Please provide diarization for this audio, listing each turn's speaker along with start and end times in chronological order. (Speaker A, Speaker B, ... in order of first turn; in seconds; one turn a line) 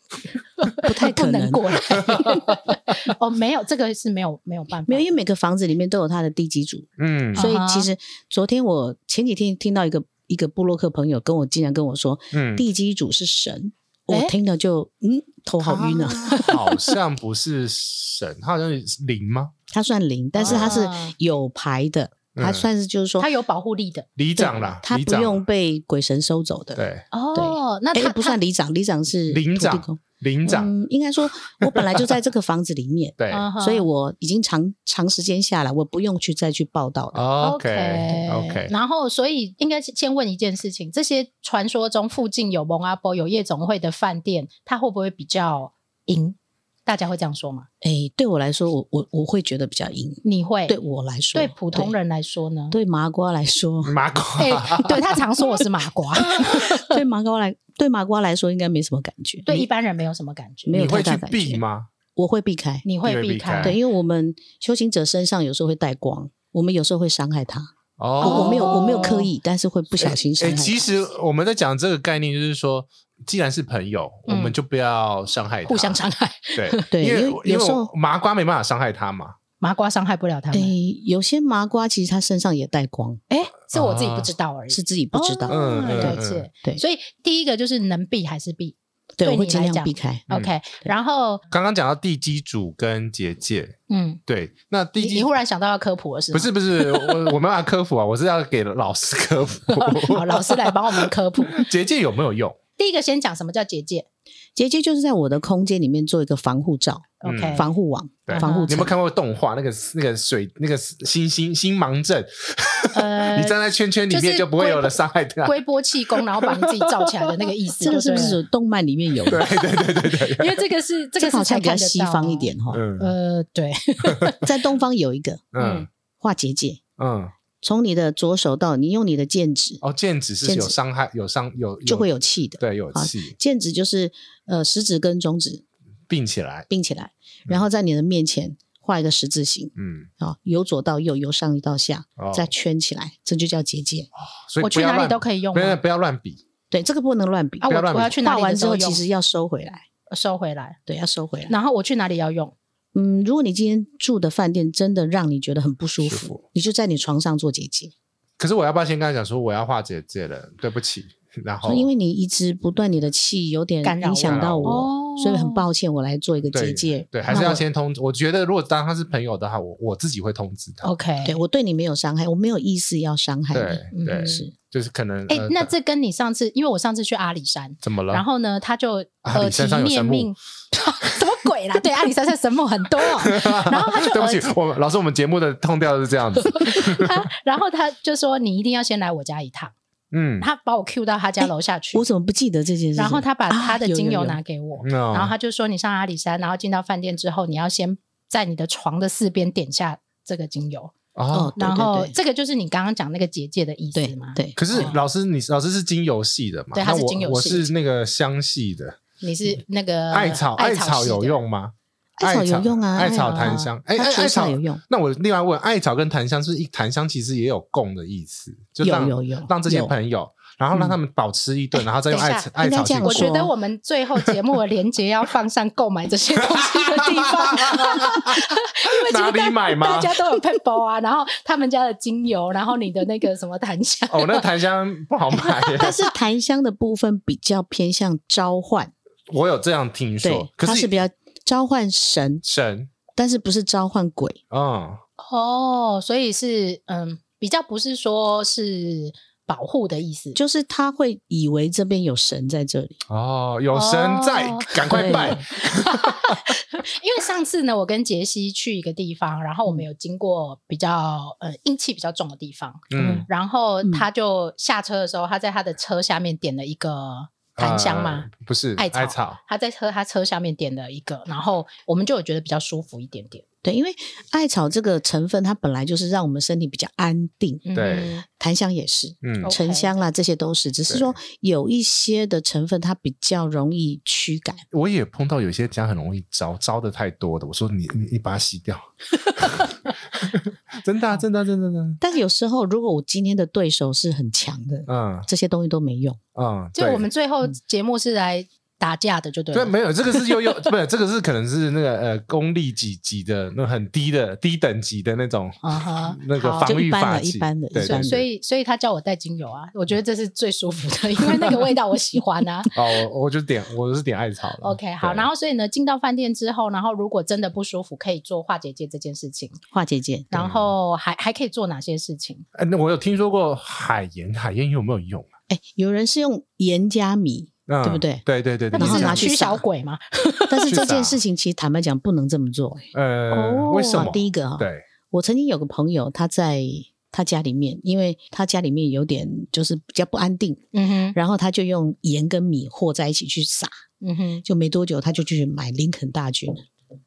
Speaker A: 0.6-5.1
Speaker B: 0.8-2.2
Speaker C: 1.9-2.5
Speaker B: 4.9-16.5
Speaker C: 7.0-7.5
Speaker A: 7.3-7.9
Speaker C: 12.3-12.6
Speaker C: 15.6-19.5
Speaker A: 16.2-16.6
Speaker B: 19.7-23.3
Speaker A: 20.3-21.1
Speaker C: 20.4-20.7
Speaker C: 22.3-22.7
Speaker A: 23.2-24.1
Speaker C: 24.2-25.4
Speaker B: 24.4-37.2
Speaker C: 26.8-27.1
Speaker A: 27.1-28.4
Speaker C: 29.3-30.7
Speaker C: 31.6-32.1
Speaker C: 33.2-33.5
Speaker A: 33.3-33.9
Speaker C: 37.1-38.7
Speaker A: 37.4-47.7
Speaker B: 47.8-51.9
Speaker A: 50.2-50.8
Speaker A: 51.3-52.8
Speaker B: 52.7-54.0
Speaker C: 53.8-55.1
Speaker A: 54.4-57.0
Speaker B: 56.3-59.6
Speaker A: 59.5-60.9
Speaker B: 60.6-61.6
Speaker C: 60.7-61.9
Speaker B: 62.1-62.8
Speaker A: 62.8-63.8
Speaker C: 63.0-63.8
Speaker B: 63.6-70.9
Speaker C: 68.0-68.9
Speaker A: 68.2-69.3
Speaker C: 70.0-76.0
Speaker A: 74.3-74.5
Speaker A: 75.7-76.9
Speaker C: 76.5-79.3
Speaker B: 76.9-77.9
Speaker A: 79.6-80.7
Speaker B: 80.5-83.2
Speaker A: 83.3-91.4
Speaker C: 83.7-84.3
Speaker B: 84.7-86.8
Speaker C: 85.5-86.5
Speaker B: 89.2-90.2
Speaker C: 91.5-95.3
Speaker A: 93.9-94.2
Speaker A: 95.0-97.3
Speaker C: 96.3-102.6
Speaker A: 99.7-101.6
Speaker A: 102.8-104.0
Speaker B: 104.5-108.9
Speaker A: 107.2-107.7
Speaker C: 107.2-107.6
Speaker C: 108.3-117.1
Speaker A: 108.3-108.8
Speaker A: 112.9-113.5
Speaker A: 114.1-118.4
Speaker B: 117.8-119.5
Speaker C: 119.2-120.6
Speaker A: 119.8-124.5
Speaker B: 121.2-122.8
Speaker C: 122.7-123.1
Speaker B: 124.4-125.5
Speaker C: 125.5-125.9
Speaker A: 125.6-125.9
Speaker B: 126.2-126.8
Speaker C: 127.0-127.3
Speaker B: 127.6-129.8
Speaker C: 129.8-133.3
Speaker B: 130.4-130.8
Speaker B: 131.8-135.6
Speaker C: 136.1-136.7
Speaker B: 136.7-144.1
Speaker C: 139.8-140.1
Speaker C: 142.2-142.5
Speaker C: 144.2-146.4
Speaker A: 144.6-145.8
Speaker B: 146.7-149.8
Speaker A: 147.6-149.0
Speaker C: 147.7-148.2
Speaker A: 150.1-150.8
Speaker B: 150.9-151.5
Speaker A: 151.5-152.5
Speaker B: 152.9-157.9
Speaker C: 156.0-156.4
Speaker C: 158.4-161.9
Speaker B: 161.6-167.6
Speaker A: 163.8-165.6
Speaker C: 164.2-164.9
Speaker C: 166.5-170.9
Speaker A: 167.3-167.6
Speaker A: 170.8-171.4
Speaker B: 171.2-174.5
Speaker C: 173.5-175.7
Speaker A: 173.9-174.4
Speaker A: 175.3-184.5
Speaker C: 177.8-178.2
Speaker C: 179.2-180.3
Speaker C: 183.2-187.2
Speaker A: 186.4-189.7
Speaker C: 190.1-190.5
Speaker A: 190.4-192.1
Speaker B: 191.4-194.4
Speaker A: 192.9-200.9
Speaker C: 194.8-195.3
Speaker C: 201.2-201.5
Speaker B: 201.3-202.1
Speaker A: 201.6-205.0
Speaker B: 203.9-204.9
Speaker C: 204.6-209.0
Speaker A: 206.7-207.7
Speaker A: 209.2-211.4
Speaker C: 210.1-223.3
Speaker B: 212.2-214.8
Speaker A: 213.0-213.7
Speaker B: 218.8-219.9
Speaker A: 222.1-234.5
Speaker B: 222.6-223.5
Speaker C: 226.4-230.2
Speaker C: 234.1-235.9
Speaker A: 235.4-236.1
Speaker B: 235.8-238.9
Speaker C: 239.3-240.9
Speaker B: 240.2-242.4
Speaker C: 242.4-242.9
Speaker B: 243.1-244.4
Speaker C: 244.5-245.0
Speaker A: 245.2-250.4
Speaker B: 250.3-253.0
Speaker C: 253.1-256.4
Speaker A: 253.7-273.4
Speaker B: 254.9-255.4
Speaker C: 262.9-263.3
Speaker B: 262.9-263.2
Speaker C: 267.6-269.4
Speaker B: 273.6-284.6
Speaker A: 277.6-278.2
Speaker C: 277.7-278.1
Speaker C: 279.2-279.5
Speaker A: 279.4-280.0
Speaker C: 280.9-281.1
Speaker C: 284.7-292.0
Speaker B: 292.0-296.2
Speaker C: 294.9-295.3
Speaker C: 296.3-297.1
Speaker A: 296.7-300.6
Speaker C: 299.5-308.2
Speaker A: 305.6-306.8
Speaker B: 306.6-308.2
Speaker A: 307.8-312.7
Speaker C: 312.7-315.3
Speaker A: 314.6-319.6
Speaker B: 319.7-320.3
Speaker A: 320.3-322.4
Speaker C: 320.3-320.7
Speaker C: 322.5-325.3
Speaker B: 325.5-329.6
Speaker C: 327.7-329.3
Speaker A: 328.7-330.8
Speaker B: 330.5-343.7
Speaker C: 330.7-331.2
Speaker C: 332.9-334.8
Speaker A: 340.7-341.2
Speaker A: 344.0-344.4
Speaker B: 344.4-346.6